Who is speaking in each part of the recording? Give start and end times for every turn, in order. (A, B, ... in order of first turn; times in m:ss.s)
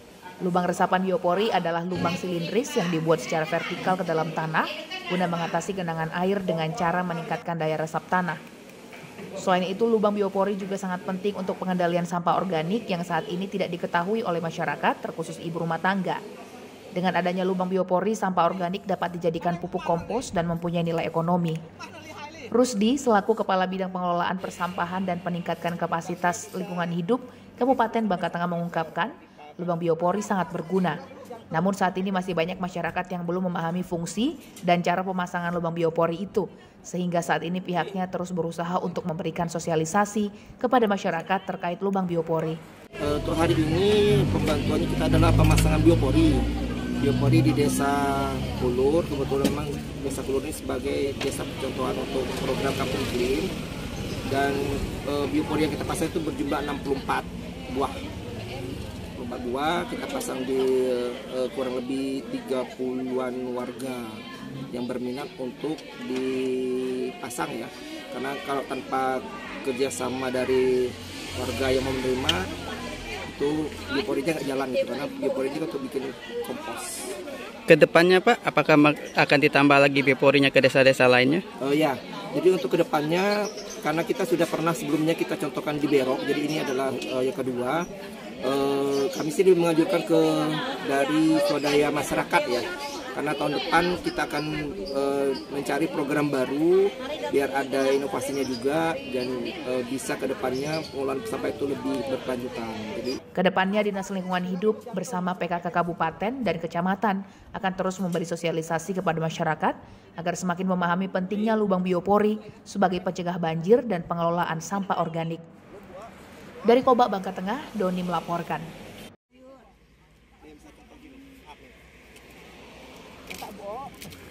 0:00.4-0:08.4 A
0:09.4-0:16.2 A
0:16.9-0:21.6 A
0:22.5-0:31.0 A
0:31.5-0:42.6 A
0:43.0-0:46.5 B
0:47.0-0:53.5 B
0:54.3-0:58.0 B
0:59.2-1:12.5 B
1:13.2-1:17.1 B
1:17.7-1:21.4 C
1:21.6-1:27.9 B
1:28.4-1:43.2 B
1:43.4-1:55.4 A
1:56.6-1:58.7 A
2:00.6-2:01.4 B